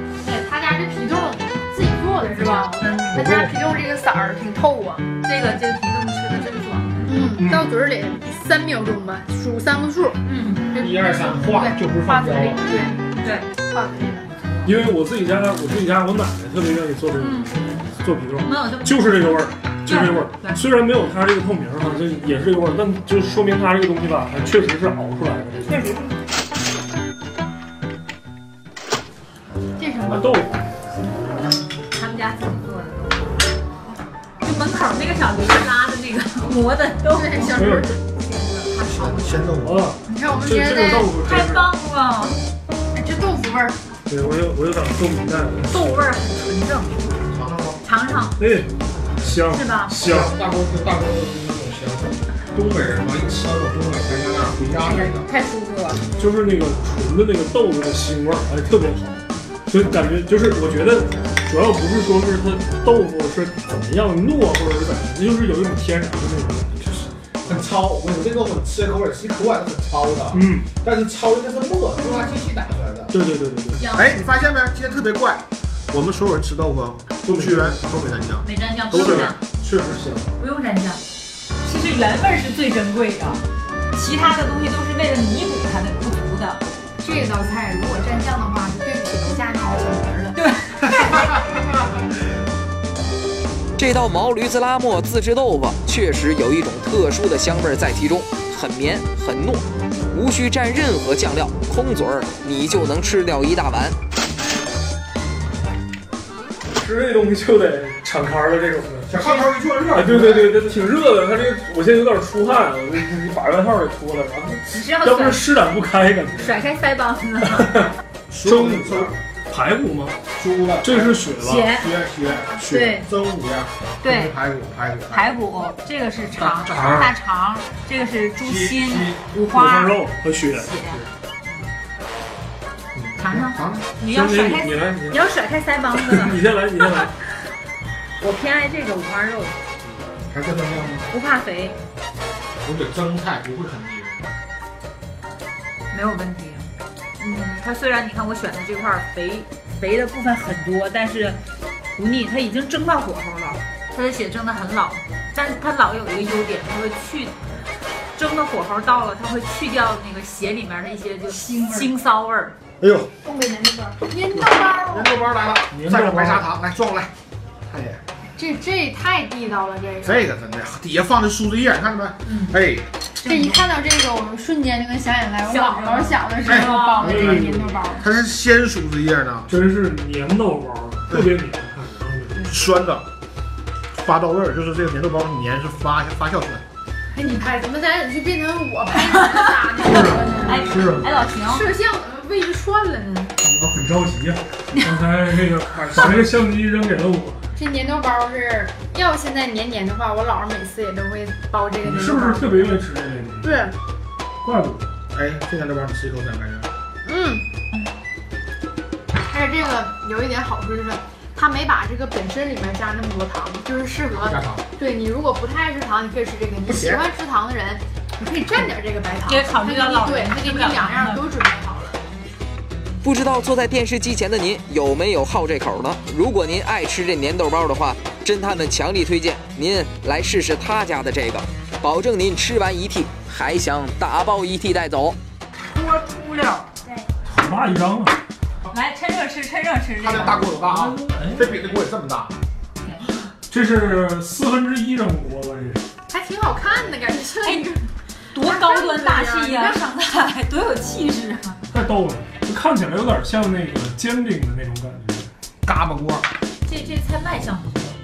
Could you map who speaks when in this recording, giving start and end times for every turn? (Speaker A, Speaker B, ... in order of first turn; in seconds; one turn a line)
Speaker A: 0.2-5.1
Speaker B: 2.2-3.3
Speaker B: 5.2-7.2
Speaker A: 7.1-10.2
Speaker C: 7.4-7.7
Speaker B: 10.2-10.7
Speaker A: 10.7-14.3
Speaker D: 10.8-12.8
Speaker B: 12.7-13.5
Speaker C: 14.6-25.9
Speaker B: 17.2-17.6
Speaker B: 18.4-20.6
Speaker B: 25.7-26.1
Speaker A: 29.8-30.3
Speaker C: 30.1-30.6
Speaker B: 31.9-33.3
Speaker B: 34.4-39.5
Speaker A: 37.1-37.9
Speaker C: 37.6-37.9
Speaker D: 38.9-39.9
Speaker C: 39.6-41.7
Speaker A: 40.1-41.1
Speaker B: 41.2-42.4
Speaker A: 42.9-43.8
Speaker C: 44.1-46.1
Speaker B: 45.7-47.0
Speaker D: 47.3-47.8
Speaker B: 47.8-48.4
Speaker C: 48.4-48.7
Speaker C: 49.2-50.3
Speaker B: 49.5-50.0
Speaker D: 49.9-55.3
Speaker B: 54.8-56.0
Speaker C: 56.2-67.7
Speaker D: 67.5-73.1
Speaker C: 70.3-70.7
Speaker A: 72.3-72.6
Speaker C: 73.1-73.8
Speaker B: 73.8-74.3
Speaker D: 73.9-79.3
Speaker C: 77.3-77.8
Speaker B: 78.4-79.4
Speaker C: 78.9-80.3
Speaker B: 80.4-81.0
Speaker B: 81.6-83.4
Speaker B: 83.9-86.6
Speaker A: 87.0-90.4
Speaker B: 90.4-91.3
Speaker E: 93.8-104.0
Speaker C: 106.8-116.7
Speaker D: 109.1-110.7
Speaker B: 114.7-115.5
Speaker B: 116.4-117.9
Speaker C: 117.4-117.9
Speaker D: 118.3-119.2
Speaker C: 118.4-120.2
Speaker D: 120.4-125.4
Speaker C: 120.8-121.8
Speaker B: 121.4-122.0
Speaker B: 122.6-123.1
Speaker B: 124.0-124.4
Speaker B: 125.1-131.0
Speaker D: 126.4-127.1
Speaker D: 128.4-129.2
Speaker C: 129.5-130.7
Speaker B: 133.2-137.1
Speaker D: 133.2-133.8
Speaker C: 134.0-135.2
Speaker C: 135.9-137.1
Speaker B: 138.2-139.6
Speaker D: 140.3-141.1
Speaker B: 141.1-141.8
Speaker D: 142.6-144.3
Speaker B: 145.9-151.4
Speaker B: 152.0-157.4
Speaker B: 158.1-162.6
Speaker A: 161.3-161.9
Speaker D: 162.8-163.1
Speaker A: 163.2-165.1
Speaker D: 164.8-167.1
Speaker C: 165.7-166.5
Speaker D: 167.7-168.0
Speaker A: 168.4-170.3
Speaker D: 170.0-172.9
Speaker B: 172.2-172.6
Speaker B: 173.2-173.7
Speaker A: 173.2-178.0
Speaker B: 175.4-177.3
Speaker D: 176.5-177.4
Speaker C: 177.0-177.8
Speaker D: 178.0-179.5
Speaker C: 179.5-182.4
Speaker D: 182.4-183.1
Speaker D: 183.9-186.6
Speaker A: 187.2-190.7
Speaker B: 189.0-191.7
Speaker C: 189.8-191.3
Speaker A: 191.4-193.3
Speaker C: 193.4-197.4
Speaker A: 197.6-202.7
Speaker C: 201.8-203.7
Speaker A: 203.4-203.8
Speaker C: 204.4-204.8
Speaker D: 205.1-206.7
Speaker A: 207.1-207.5
Speaker A: 209.3-222.0
Speaker D: 214.1-214.7
Speaker D: 216.7-217.1
Speaker B: 219.3-221.2
Speaker E: 223.0-235.2
Speaker C: 235.8-236.6
Speaker C: 237.3-238.2
Speaker B: 238.7-240.6
Speaker D: 240.0-242.3
Speaker C: 240.7-241.4
Speaker C: 243.5-245.9
Speaker A: 246.1-247.9
Speaker B: 248.3-251.6
Speaker A: 248.4-249.8
Speaker C: 251.7-255.3
Speaker D: 255.7-256.3
Speaker B: 256.6-257.9